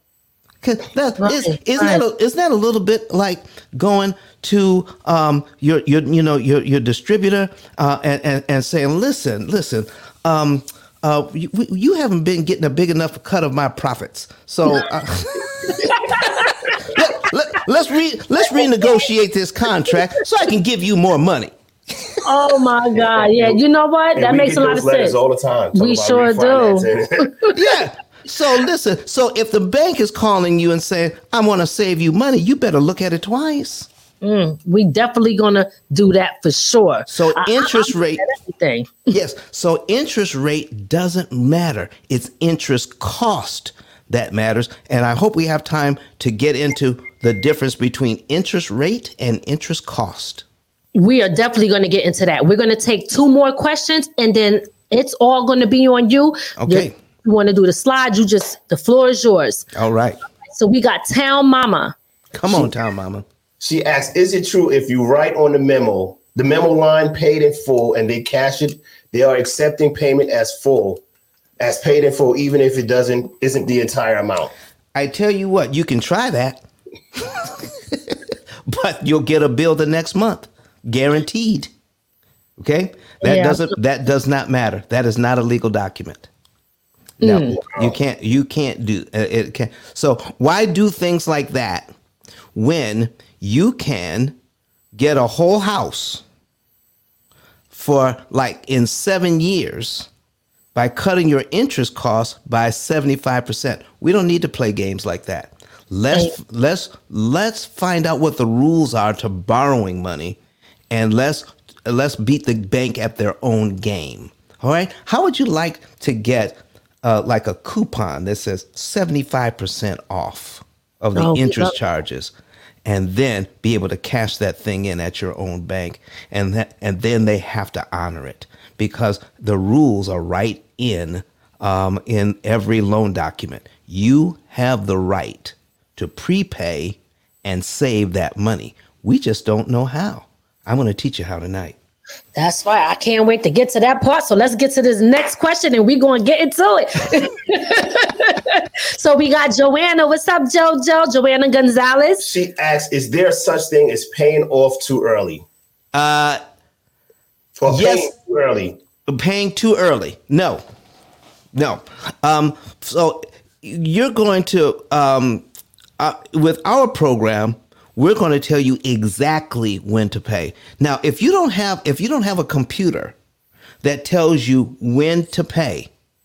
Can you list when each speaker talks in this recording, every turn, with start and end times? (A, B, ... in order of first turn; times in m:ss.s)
0:00.6-0:15.9 A
0:01.2-0:02.0 B
0:15.7-0:17.0 B
0:16.9-0:22.1 A
0:22.2-0:25.2 B
0:22.9-0:23.6 C
0:24.2-0:27.4 C
0:25.7-0:26.9 B
0:27.5-0:33.9 A
0:34.2-0:39.1 B
0:37.1-0:38.3 A
0:39.1-0:50.4 A
0:51.0-0:59.7 B
0:56.6-0:56.9 A
0:59.7-1:00.2 A
1:00.5-1:02.0 B
1:02.3-1:03.2 A
1:03.6-1:11.0 C
1:11.6-1:14.5 C
1:14.9-1:21.7 A
1:22.6-1:26.3 A
1:23.2-1:23.7 B
1:27.2-1:27.6 B
1:27.2-1:31.9 A
1:27.6-1:28.0 C
1:32.5-1:34.4 A
1:34.9-1:36.2 A
1:37.7-1:40.1 A
1:40.8-1:50.4 A
1:50.9-2:02.3 A
2:01.2-2:01.7 B
2:02.8-2:21.8 A
2:22.4-2:32.2 B
2:32.2-2:35.4 C
2:35.9-2:36.4 A
2:37.6-2:38.8 C
2:37.6-2:38.1 A
2:39.1-2:40.6 A
2:41.5-2:45.4 A
2:46.0-2:53.2 A
2:53.8-2:55.9 A